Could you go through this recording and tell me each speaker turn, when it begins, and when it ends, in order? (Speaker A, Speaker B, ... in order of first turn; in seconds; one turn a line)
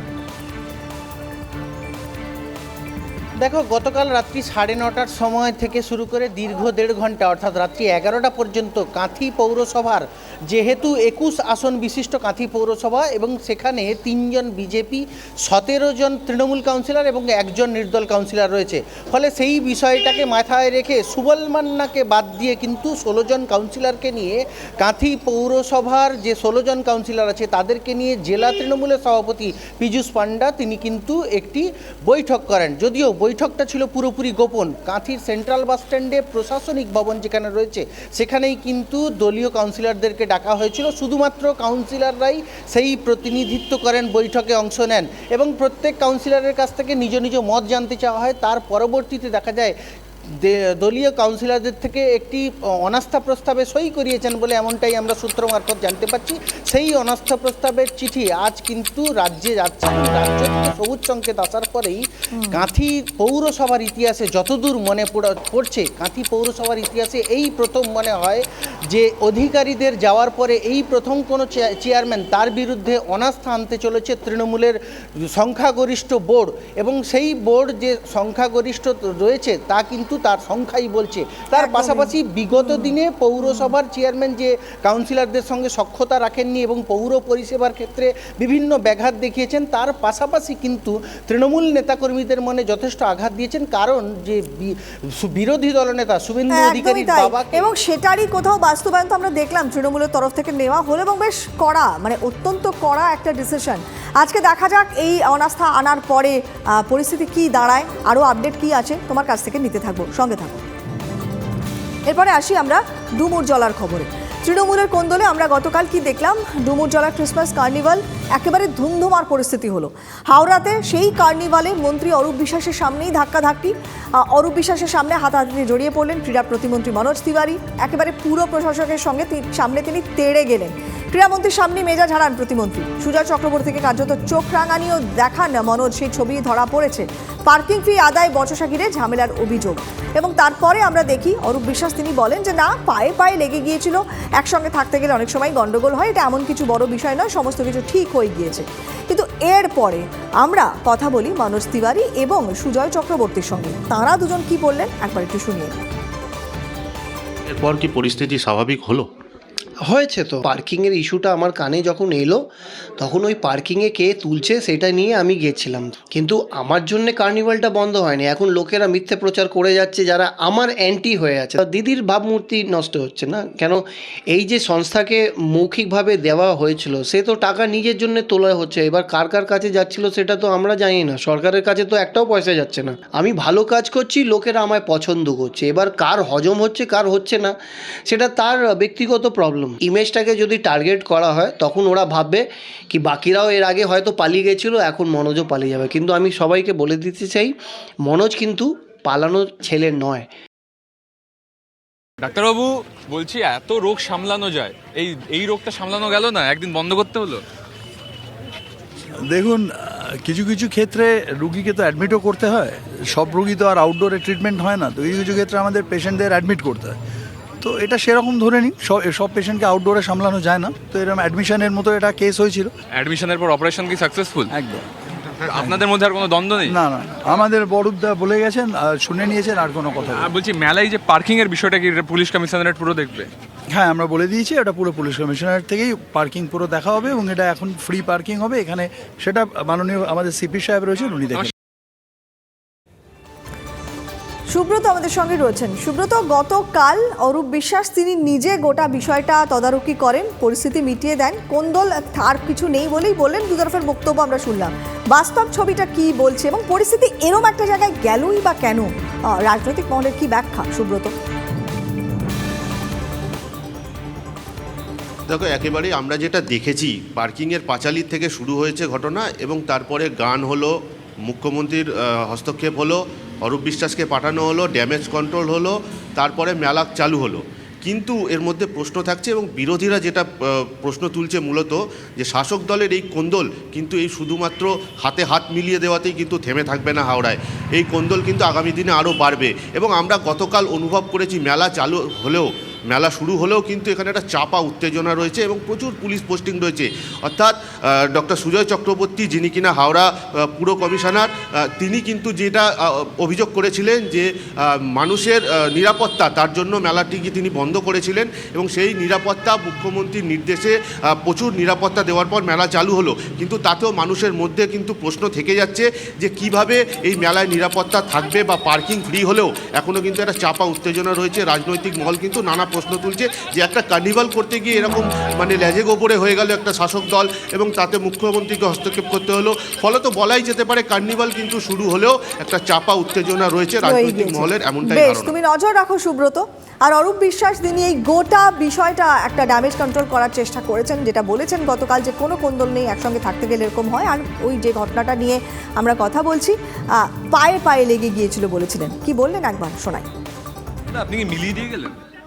Speaker A: 3.4-49.8
Speaker A: 50.4-74.8
Speaker A: 75.3-97.7
Speaker B: 81.6-83.7
Speaker B: 96.5-110.6
Speaker B: 112.1-155.8
Speaker C: 157.5-159.1
Speaker D: 159.8-162.4
Speaker D: 163.0-187.5
Speaker D: 188.1-197.5
Speaker D: 198.0-200.3
Speaker E: 202.2-207.4
Speaker F: 209.3-217.0
Speaker F: 217.6-222.7
Speaker E: 222.9-224.5
Speaker F: 224.5-224.9
Speaker E: 225.5-226.7
Speaker F: 226.7-230.3
Speaker E: 230.1-233.3
Speaker F: 233.7-241.5
Speaker B: 244.5-261.1
Speaker C: 265.3-335.3
Speaker B: 333.8-350.1
Speaker E: 350.9-352.0